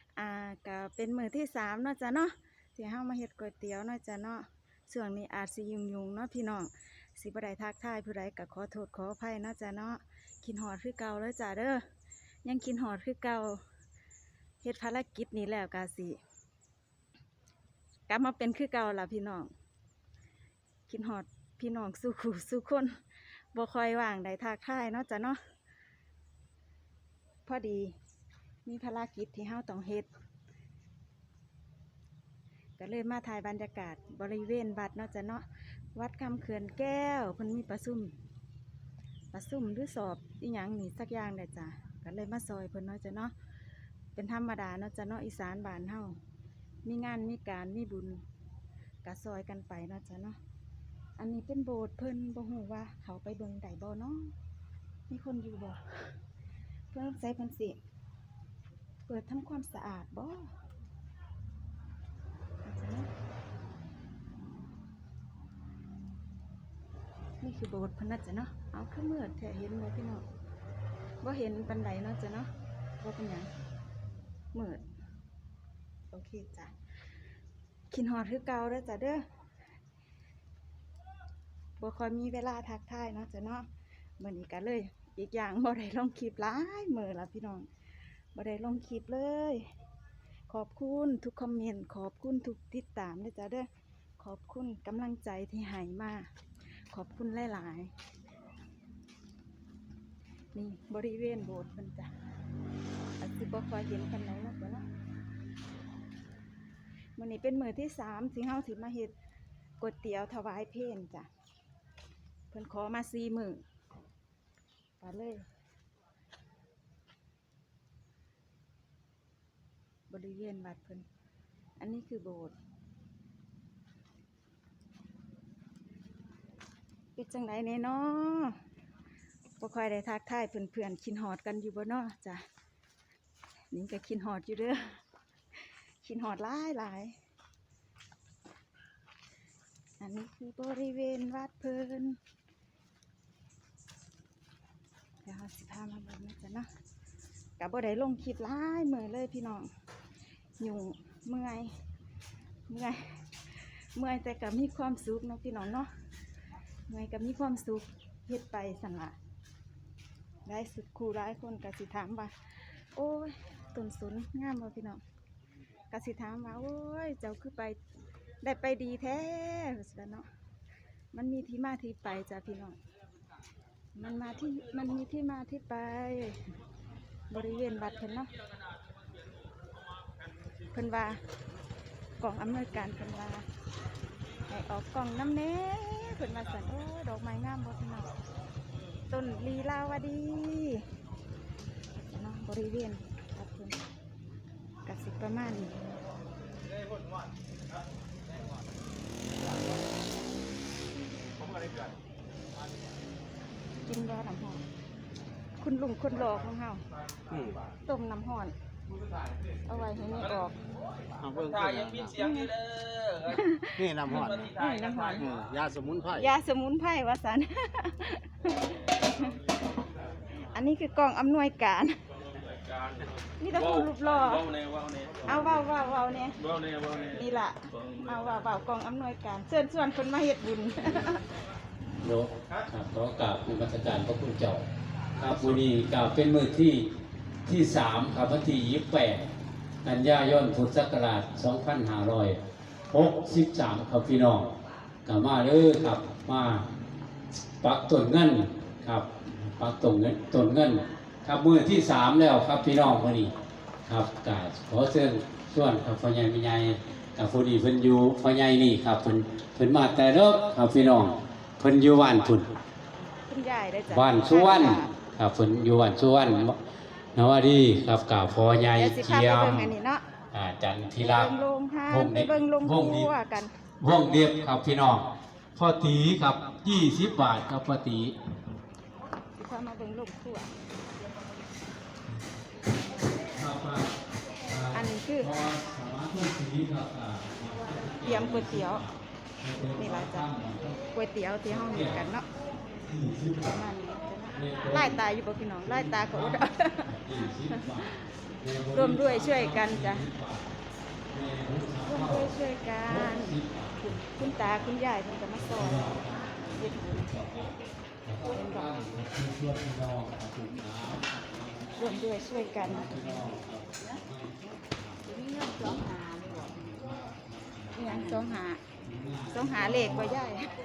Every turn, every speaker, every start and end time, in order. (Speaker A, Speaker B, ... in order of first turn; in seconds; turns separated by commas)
Speaker A: 0.2-11.8, Speaker A: 12.4-13.6, Speaker A: 14.6-16.2, Speaker A: 18.1-19.5, Speaker A: 20.9-22.9, Speaker A: 23.5-25.4, Speaker A: 27.4-27.9, Speaker A: 28.6-30.1, Speaker A: 32.8-38.1, Speaker A: 39.3-43.3, Speaker A: 44.1-46.1, Speaker A: 46.8-48.2, Speaker A: 49.0-50.4, Speaker A: 51.2-54.3, Speaker A: 55.1-56.1, Speaker A: 56.9-57.8, Speaker A: 59.0-60.5, Speaker A: 62.6-63.1, Speaker A: 67.4-70.2, Speaker A: 71.2-72.5, Speaker A: 73.0-73.5, Speaker A: 74.5-74.8, Speaker A: 76.1-76.7, Speaker A: 77.9-79.2, Speaker A: 81.8-83.7, Speaker A: 84.2-87.7, Speaker A: 88.3-89.7, Speaker A: 90.5-93.7, Speaker A: 94.2-96.3, Speaker A: 96.9-97.9, Speaker A: 100.5-102.1, Speaker A: 103.2-104.8, Speaker A: 107.2-109.1, Speaker A: 109.8-111.3, Speaker A: 112.5-113.6, Speaker A: 115.0-115.4, Speaker A: 120.1-121.0, Speaker A: 121.8-122.5, Speaker A: 127.2-128.6, Speaker A: 129.6-132.4, Speaker A: 133.7-134.8, Speaker A: 136.0-137.1, Speaker A: 140.0-142.2, Speaker A: 145.2-146.7, Speaker A: 147.6-149.7, Speaker A: 150.6-151.7, Speaker A: 152.7-153.1, Speaker A: 153.9-155.9, Speaker A: 156.9-159.2, Speaker A: 160.4-162.3, Speaker A: 162.9-165.0, Speaker A: 165.9-167.8, Speaker A: 168.4-170.2, Speaker A: 171.1-172.8, Speaker A: 173.9-176.4, Speaker A: 177.3-178.3, Speaker A: 180.7-181.2, Speaker A: 182.2-183.4, Speaker A: 184.5-188.2, Speaker A: 189.1-190.8, Speaker A: 191.9-193.8, Speaker A: 194.8-195.7, Speaker A: 203.8-204.6, Speaker A: 205.6-206.8, Speaker A: 207.8-208.5, Speaker A: 209.7-210.6, Speaker B: 211.2-212.1, Speaker C: 211.4-213.4, Speaker A: 212.1-212.5, Speaker A: 213.3-215.3, Speaker B: 213.8-214.3, Speaker C: 214.4-215.2, Speaker B: 215.2-216.3, Speaker A: 216.1-219.3, Speaker A: 220.4-221.9, Speaker A: 223.4-224.5, Speaker C: 224.5-225.1, Speaker A: 225.2-226.4, Speaker C: 226.6-227.0, Speaker A: 227.0-231.2, Speaker D: 232.0-234.6, Speaker D: 235.2-236.9, Speaker D: 237.4-239.2, Speaker D: 239.8-244.5, Speaker D: 245.1-246.7, Speaker D: 247.6-253.3, Speaker D: 253.8-262.5, Speaker A: 263.2-264.9, Speaker D: 263.9-266.6, Speaker D: 267.1-269.7, Speaker A: 268.7-270.0, Speaker D: 270.3-271.3, Speaker A: 271.0-273.5, Speaker D: 271.9-273.1, Speaker D: 273.8-278.1, Speaker A: 279.4-280.5, Speaker D: 283.2-290.8, Speaker A: 284.7-285.3, Speaker A: 288.0-288.8, Speaker A: 289.7-292.3, Speaker D: 291.5-292.1, Speaker D: 292.8-293.6, Speaker A: 293.4-297.7, Speaker D: 294.4-295.0, Speaker D: 295.6-300.5, Speaker A: 298.7-300.1, Speaker D: 301.1-302.3, Speaker A: 301.8-307.5, Speaker D: 302.9-304.6, Speaker D: 305.5-307.5, Speaker D: 308.0-311.9, Speaker A: 308.3-308.7, Speaker A: 311.8-312.9, Speaker D: 312.6-318.3, Speaker A: 317.7-318.6, Speaker D: 318.8-320.2, Speaker A: 319.3-320.5